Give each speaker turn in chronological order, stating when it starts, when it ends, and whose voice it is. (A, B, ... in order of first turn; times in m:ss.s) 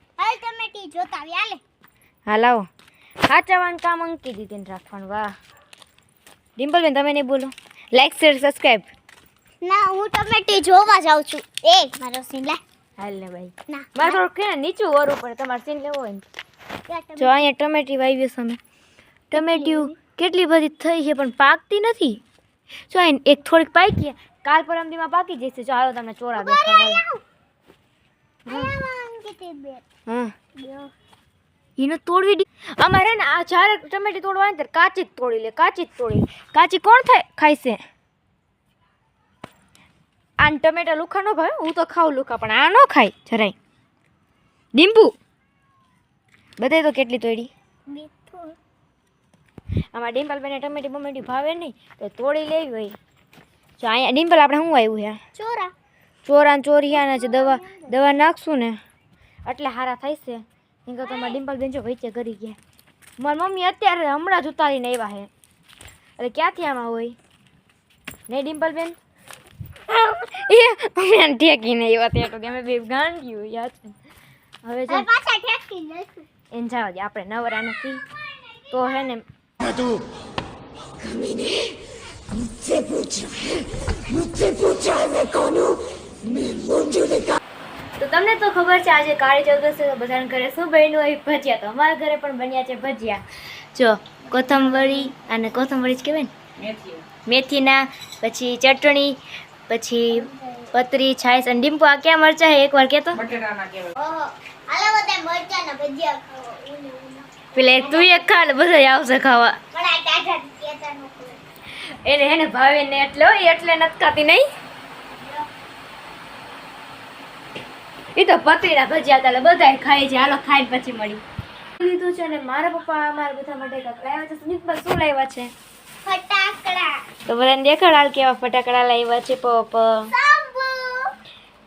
0:00.2-0:01.6 A
0:02.3-0:02.7 B
0:03.2-0:05.3 B
0:06.6-0:08.9 B
0:09.6-0:12.6 A
0:13.0-0:16.2 B
0:13.7-0:14.2 A
0:16.9-0:17.5 A
0:17.2-0:18.6 B
0:19.3-0:22.2 B
0:19.3-0:19.9 A
0:22.9-0:27.0 B
0:26.3-0:27.2 A
0:28.5-0:29.8 A
0:30.1-0:30.3 B
0:30.6-0:30.9 A
0:31.8-0:37.8 B
0:40.4-0:43.5 B
0:44.7-0:45.1 B
0:46.6-0:47.5 B
0:47.9-0:48.6 A
0:49.9-0:53.0 B
0:53.8-0:55.2 B
0:55.3-0:55.7 A
0:56.2-0:58.8 B
0:56.9-0:58.0 A
0:59.4-1:02.6 B
1:01.0-1:01.4 A
1:03.2-1:05.3 B
1:06.2-1:07.2 B
1:08.3-1:09.0 B
1:09.9-1:13.9 B
1:14.6-1:15.1 B
1:14.9-1:16.3 A
1:16.5-1:18.0 B
1:18.7-1:19.2 B
1:25.1-1:25.6 B
1:28.0-1:36.3 B
1:37.2-1:43.3 B
1:40.1-1:40.7 A
1:43.9-1:48.3 A
1:47.5-1:49.6 B
1:49.7-1:51.4 A
1:51.8-1:54.5 B
1:58.2-2:01.2 B
2:01.8-2:05.5 B
2:06.0-2:07.0 A
2:07.3-2:10.1 B
2:10.1-2:11.1 A